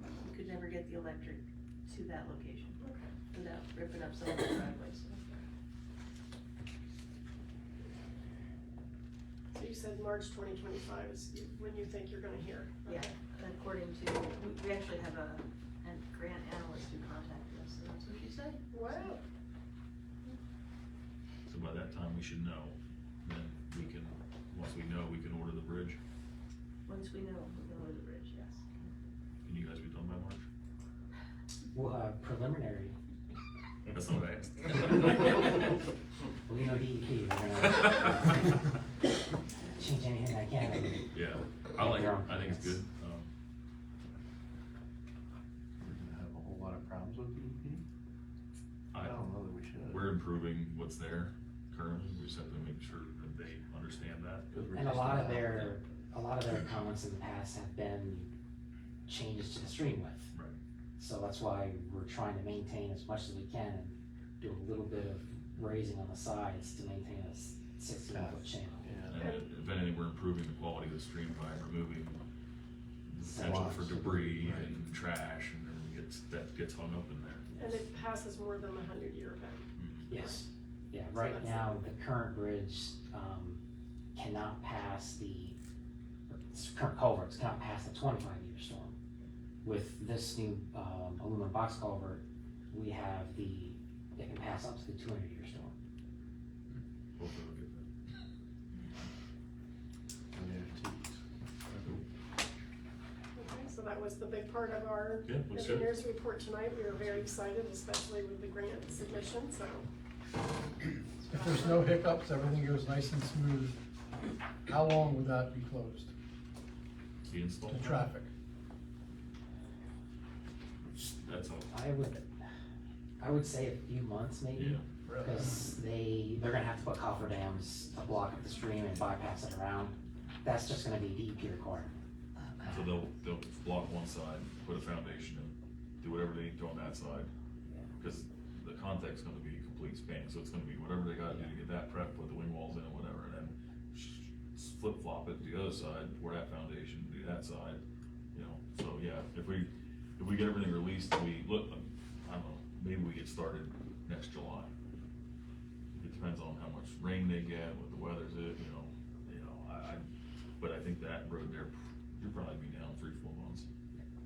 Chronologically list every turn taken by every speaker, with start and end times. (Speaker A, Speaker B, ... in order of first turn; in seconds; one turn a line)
Speaker A: 0.3-2.8
Speaker B: 2.8-3.1
Speaker A: 3.4-5.5
Speaker B: 9.5-13.1
Speaker A: 12.9-19.1
Speaker B: 18.7-19.2
Speaker C: 21.5-26.0
Speaker A: 26.9-28.6
Speaker C: 29.4-30.5
Speaker D: 31.7-33.0
Speaker C: 33.9-35.5
Speaker D: 36.5-38.6
Speaker D: 39.7-41.2
Speaker C: 41.1-43.3
Speaker D: 41.8-42.8
Speaker E: 45.8-47.8
Speaker C: 48.9-49.2
Speaker E: 48.9-50.2
Speaker C: 49.8-55.7
Speaker E: 54.5-55.6
Speaker D: 54.7-58.3
Speaker D: 59.1-60.3
Speaker D: 61.0-69.0
Speaker E: 68.1-69.2
Speaker C: 69.1-72.2
Speaker B: 69.2-69.5
Speaker C: 73.1-77.5
Speaker D: 73.2-73.9
Speaker E: 73.3-74.9
Speaker D: 77.5-77.8
Speaker B: 77.6-80.4
Speaker C: 79.8-80.1
Speaker D: 80.1-83.6
Speaker B: 81.1-81.8
Speaker D: 84.2-85.6
Speaker D: 86.3-89.0
Speaker D: 89.6-95.7
Speaker C: 97.2-97.9
Speaker E: 100.3-101.2
Speaker E: 101.7-102.0
Speaker B: 103.3-109.9
Speaker C: 105.2-106.0
Speaker B: 111.3-111.8
Speaker F: 111.3-113.8
Speaker F: 114.7-116.1
Speaker C: 117.3-118.1
Speaker F: 117.7-118.3
Speaker C: 120.9-121.7
Speaker D: 121.7-122.3
Speaker D: 123.2-132.0
Speaker C: 124.5-124.9
Speaker F: 125.1-125.5
Speaker C: 132.6-137.3
Speaker C: 138.0-147.8
Speaker D: 141.3-141.5
Speaker C: 148.3-154.7
Speaker C: 155.9-160.0
Speaker C: 160.6-163.7